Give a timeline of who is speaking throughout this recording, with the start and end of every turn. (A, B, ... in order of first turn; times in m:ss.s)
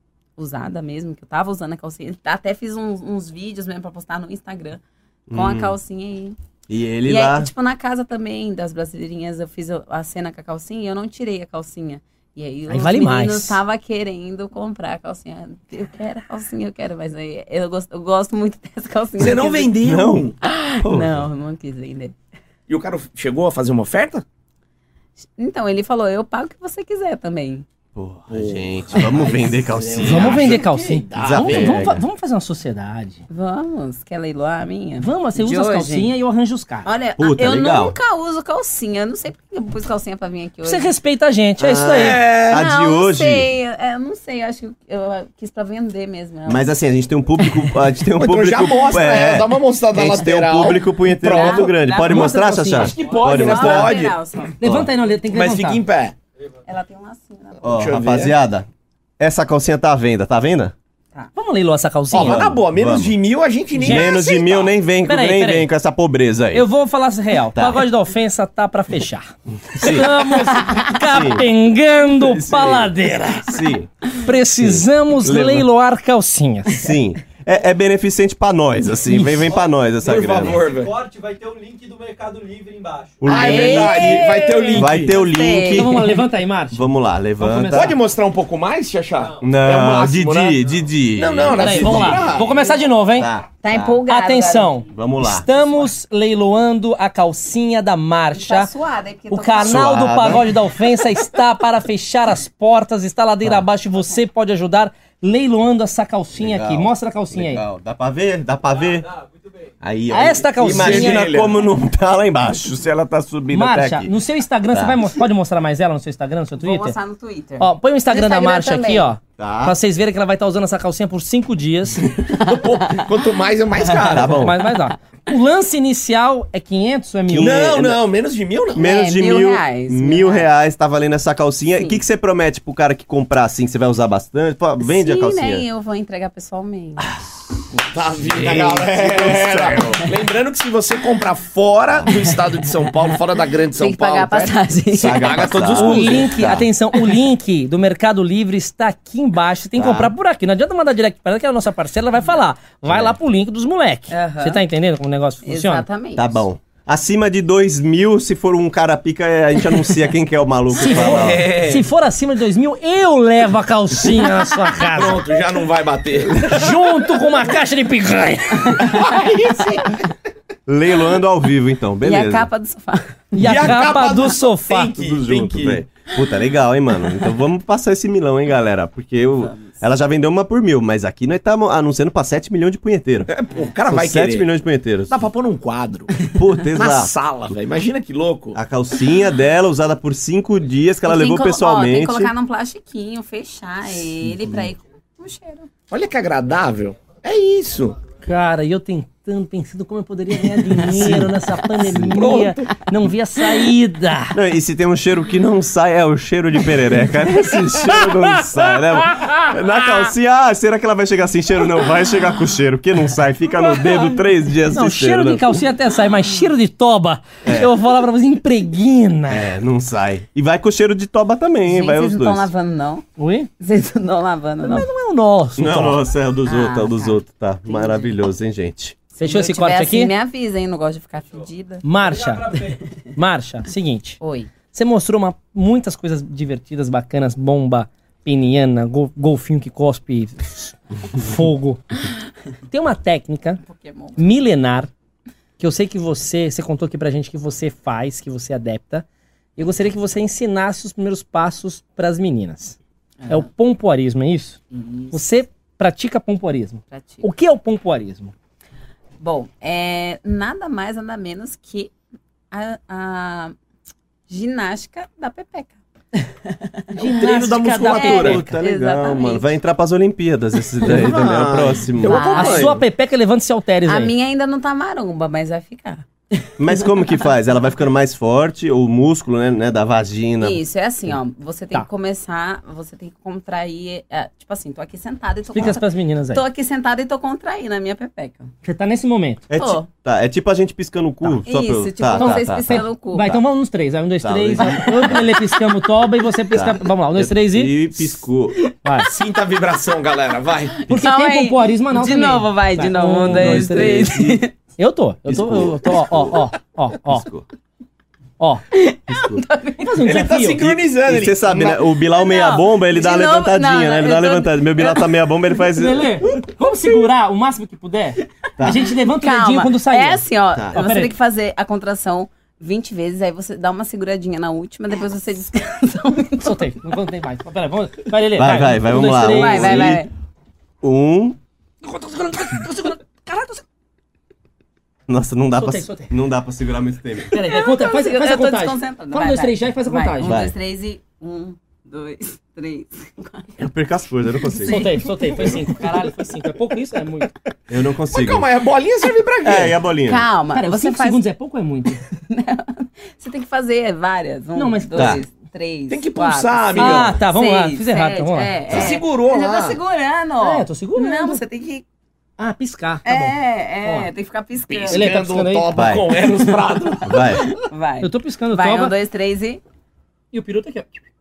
0:00.4-0:06.4 A
0:05.3-0:05.7 B
0:06.7-0:07.5 B
0:07.0-0:19.8 A
0:12.7-0:13.6 C
0:19.2-0:20.4 D
0:19.8-0:21.3 B
0:20.4-0:22.2 A
0:22.7-0:24.2 D
0:25.4-0:27.6 A
0:28.0-0:30.6 B
0:28.3-0:31.8 D
0:30.0-0:33.2 C
0:31.2-0:32.0 B
0:33.3-0:36.1 A
0:35.0-0:36.9 C
0:36.8-0:40.9 A
0:37.2-0:38.0 B
0:40.6-0:42.2 C
0:41.6-0:43.5 B
0:41.9-0:42.6 D
0:42.5-0:46.7 A
0:46.5-0:54.0 B
0:47.4-0:47.8 A
0:48.2-0:54.2 D
0:51.2-0:54.6 A
0:52.0-0:52.9 C
0:53.0-0:53.4 E
0:54.6-0:55.8 C
0:54.6-0:54.9 B
0:55.3-0:56.2 D
0:56.7-0:57.9 A
0:57.6-0:58.4 D
0:57.6-0:58.7 B
0:59.2-1:00.7 B
1:01.4-1:02.5 C
1:02.1-1:04.7 D
1:02.2-1:03.2 B
1:03.8-1:04.2 C
1:03.8-1:06.7 B
1:05.0-1:05.7 C
1:06.5-1:13.6 C
1:07.6-1:07.8 B
1:09.7-1:11.5 B
1:12.1-1:12.9 B
1:13.4-1:15.7 B
1:14.2-1:16.8 C
1:16.7-1:20.6 B
1:19.1-1:19.5 C
1:20.0-1:21.0 D
1:20.5-1:23.8 E
1:23.2-1:26.2 B
1:23.2-1:25.2 D
1:23.3-1:26.1 A
1:25.7-1:26.8 C
1:26.7-1:27.9 B
1:27.4-1:27.9 C
1:27.7-1:30.6 D
1:29.2-1:29.5 E
1:29.4-1:32.4 B
1:31.2-1:32.6 D
1:31.6-1:33.3 C
1:33.2-1:34.0 B
1:33.6-1:34.8 A
1:34.1-1:38.7 C
1:34.9-1:35.5 B
1:38.3-1:40.1 A
1:39.3-1:47.6 C
1:39.6-1:40.5 B
1:46.4-1:49.1 B
1:48.7-1:49.7 E
1:49.8-1:54.1 B
1:50.1-1:51.3 C
1:50.6-1:51.6 D
1:53.5-1:57.0 C
1:54.7-1:55.0 B
1:56.6-1:59.1 A
1:57.6-2:02.1 C
1:59.4-1:59.8 B
2:02.3-2:04.5 D
2:02.5-2:03.0 A
2:03.9-2:04.2 A
2:04.1-2:04.6 B
2:04.4-2:07.7 C
2:07.3-2:08.0 B
2:07.4-2:08.9 D
2:08.8-2:15.6 B
2:08.8-2:10.5 A
2:11.8-2:12.0 A
2:14.8-2:17.2 A
2:17.8-2:26.4 D
2:18.3-2:20.1 B
2:23.6-2:25.6 A
2:24.9-2:26.7 B
2:25.7-2:35.8 C
2:29.8-2:30.1 B
2:32.9-2:33.2 B
2:34.1-2:34.6 A
2:35.4-2:36.4 A
2:36.2-2:41.5 B
2:40.8-2:45.2 C
2:40.8-2:41.9 D
2:44.9-2:46.5 D
2:46.4-2:49.0 C
2:48.8-2:50.1 D
2:50.7-2:52.5 B
2:52.0-2:53.8 A
2:53.3-2:54.9 C
2:53.4-2:55.8 D
2:55.0-3:03.3 B
3:03.3-3:04.5 D
3:03.9-3:05.2 B
3:05.1-3:06.2 D
3:06.3-3:07.1 B
3:06.7-3:08.6 D
3:08.6-3:12.3 B
3:11.0-3:15.7 A
3:14.4-3:14.7 B
3:15.9-3:18.0 D
3:18.2-3:24.4 C
3:20.9-3:21.3 B
3:21.9-3:22.7 D
3:24.3-3:35.6 B
3:29.0-3:29.3 C
3:34.7-3:39.5 C
3:37.4-3:37.7 B
3:39.3-3:42.5 B
3:41.7-3:43.1 A
3:43.2-3:43.5 C
3:43.6-3:44.9 A
3:44.6-3:46.0 C
3:45.6-3:49.0 B
3:46.4-3:48.1 A
3:49.2-3:50.1 C
3:49.2-3:51.8 A
3:51.8-3:52.6 C
3:52.0-3:52.8 E
3:53.1-3:54.2 C
3:54.2-3:54.5 A
3:54.7-4:01.8 C
4:02.7-4:03.6 C
4:03.6-4:04.2 A
4:04.2-4:04.9 C
4:05.6-4:12.8 C
4:13.2-4:13.5 A
4:13.3-4:14.6 C
4:14.7-4:15.2 A
4:15.1-4:18.3 C
4:16.9-4:17.2 A
4:19.2-4:21.9 A
4:22.5-4:23.6 A
4:24.3-4:25.8 A
4:26.5-4:29.5 A
4:26.9-4:28.6 C
4:27.1-4:32.8 B
4:30.8-4:31.3 A
4:31.0-4:31.8 D
4:32.0-4:32.8 A
4:32.3-4:34.1 C
4:33.9-4:37.2 A
4:36.6-4:40.6 B
4:40.4-4:48.5 A
4:45.5-4:46.4 C
4:48.6-4:49.4 C
4:49.5-4:52.8 B
4:49.5-4:49.9 A
4:51.5-4:53.4 A
4:52.2-4:57.9 C
4:54.2-4:55.2 B
4:54.6-4:55.6 A
4:56.5-4:58.6 B
4:58.6-4:59.1 A
4:58.8-4:59.1 C
4:59.1-5:00.8 D
5:00.8-5:04.5 A
5:00.9-5:07.3 C
5:03.2-5:04.3 B
5:05.3-5:06.4 B
5:07.1-5:07.5 B
5:08.4-5:08.6 C
5:08.7-5:10.1 A
5:09.1-5:09.4 B
5:09.8-5:10.8 C
5:10.0-5:11.8 D
5:10.6-5:16.2 B
5:12.0-5:15.2 A
5:15.8-5:21.1 C
5:18.6-5:18.9 B
5:18.7-5:26.7 A
5:26.4-5:30.0 C
5:28.4-5:30.0 B
5:28.9-5:30.1 A
5:30.8-5:31.4 B
5:31.8-5:33.6 C
5:35.1-5:37.3 B
5:35.5-5:36.1 C
5:37.3-5:43.5 A
5:37.3-5:40.4 C
5:40.2-5:40.5 B
5:43.6-5:44.9 B
5:44.4-5:45.8 A
5:44.7-5:47.3 C
5:47.7-5:48.4 B
5:48.1-5:49.8 D
5:49.4-5:50.2 B
5:50.0-5:51.2 A
5:50.5-5:52.0 C
5:52.3-6:01.8 A
5:54.6-5:55.2 C
5:55.9-5:57.2 D
5:56.8-5:58.6 C
5:58.7-5:59.0 B
5:58.7-5:59.8 D
6:00.4-6:01.4 C
6:02.4-6:04.1 C
6:03.0-6:05.1 A
6:04.7-6:07.3 D
6:04.9-6:05.7 C
6:05.7-6:06.0 B
6:06.3-6:09.6 A
6:07.0-6:07.6 B
6:08.0-6:08.9 C
6:10.3-6:10.9 C